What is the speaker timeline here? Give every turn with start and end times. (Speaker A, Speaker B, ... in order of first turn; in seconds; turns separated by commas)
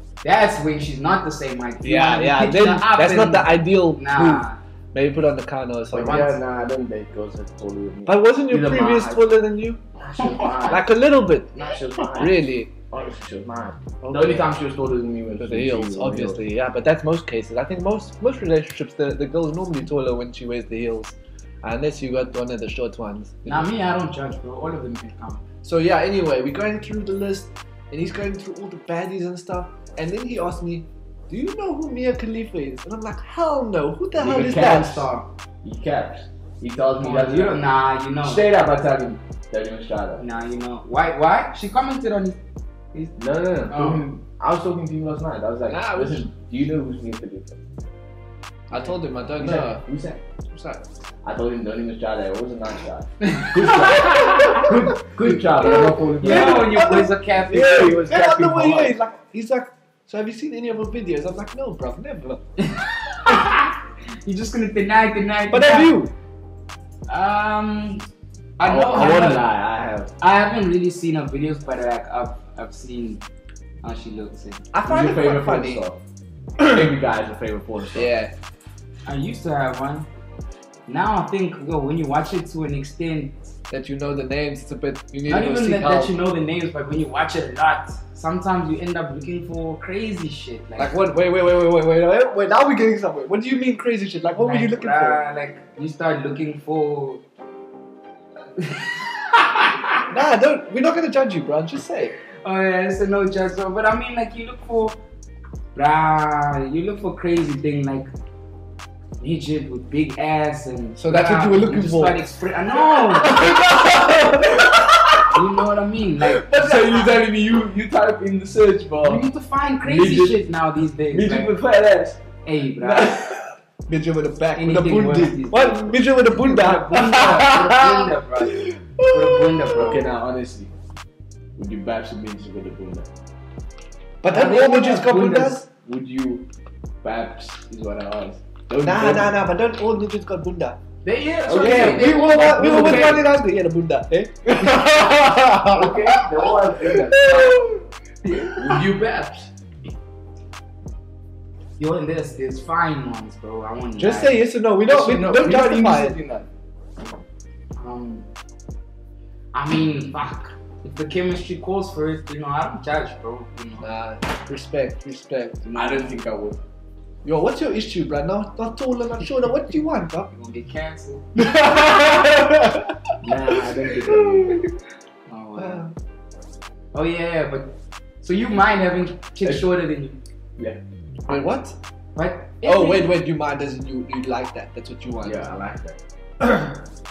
Speaker A: 0.2-4.6, Speaker B: 1.8-6.4, Speaker C: 5.9-9.3, Speaker B: 8.1-9.8, Speaker C: 10.0-10.9, Speaker A: 10.2-10.7, Speaker B: 10.7-12.7, Speaker C: 11.5-12.4, Speaker C: 12.9-16.4, Speaker B: 14.0-14.5, Speaker B: 15.4-23.7, Speaker A: 23.4-25.4, Speaker B: 25.6-35.1, Speaker C: 34.2-35.1, Speaker A: 34.6-35.3, Speaker C: 35.6-37.7, Speaker A: 37.0-38.4, Speaker C: 38.2-40.2, Speaker A: 40.2-42.4, Speaker C: 43.2-47.6, Speaker A: 43.7-44.1, Speaker B: 45.7-46.3, Speaker B: 48.7-49.8, Speaker C: 49.4-50.2, Speaker B: 50.5-50.8, Speaker C: 51.2-56.9, Speaker A: 53.2-54.7, Speaker B: 55.2-62.4, Speaker A: 56.2-58.9, Speaker C: 57.6-57.9, Speaker A: 62.6-65.9, Speaker B: 65.5-66.1, Speaker A: 67.1-68.0, Speaker A: 68.6-69.5, Speaker C: 68.6-70.1, Speaker A: 70.2-73.2, Speaker A: 73.8-74.7, Speaker B: 74.7-75.8, Speaker C: 74.8-76.0, Speaker B: 76.6-76.9, Speaker C: 76.6-78.1, Speaker B: 77.9-78.3, Speaker A: 79.0-80.1, Speaker A: 80.9-83.4, Speaker B: 83.7-86.1, Speaker A: 85.3-91.0, Speaker B: 90.8-95.2, Speaker A: 94.4-97.2, Speaker A: 98.6-100.0, Speaker B: 100.1-102.1, Speaker A: 102.4-105.0, Speaker A: 105.8-108.1, Speaker A: 109.2-113.4, Speaker B: 111.0-112.2, Speaker B: 112.9-115.4, Speaker A: 115.3-117.2, Speaker C: 116.4-119.3, Speaker A: 119.0-121.5, Speaker C: 119.8-120.4, Speaker C: 121.1-122.2, Speaker A: 122.4-123.3, Speaker C: 122.8-123.4, Speaker B: 123.9-129.8, Speaker A: 124.5-130.1, Speaker C: 129.8-130.7, Speaker C: 131.6-133.1, Speaker B: 134.2-135.7, Speaker A: 134.3-135.6, Speaker C: 135.8-136.5, Speaker C: 137.0-139.4, Speaker B: 138.8-140.8, Speaker A: 141.0-143.2, Speaker C: 141.4-143.2, Speaker B: 141.5-147.8, Speaker C: 145.6-147.6, Speaker A: 148.2-148.5, Speaker C: 148.5-149.5, Speaker A: 151.8-154.5, Speaker B: 154.0-156.2, Speaker C: 154.9-156.4, Speaker A: 157.8-158.3, Speaker A: 159.5-163.9, Speaker B: 163.8-165.6, Speaker A: 165.6-166.1, Speaker C: 165.7-166.6, Speaker B: 167.2-170.3, Speaker A: 170.3-171.5, Speaker B: 171.4-173.0, Speaker A: 173.2-174.6, Speaker C: 173.4-174.6, Speaker B: 174.2-174.6, Speaker A: 175.3-175.9, Speaker B: 175.6-175.9, Speaker A: 176.9-180.2, Speaker B: 181.3-181.8, Speaker A: 182.2-183.1, Speaker B: 182.6-185.5, Speaker C: 185.2-186.8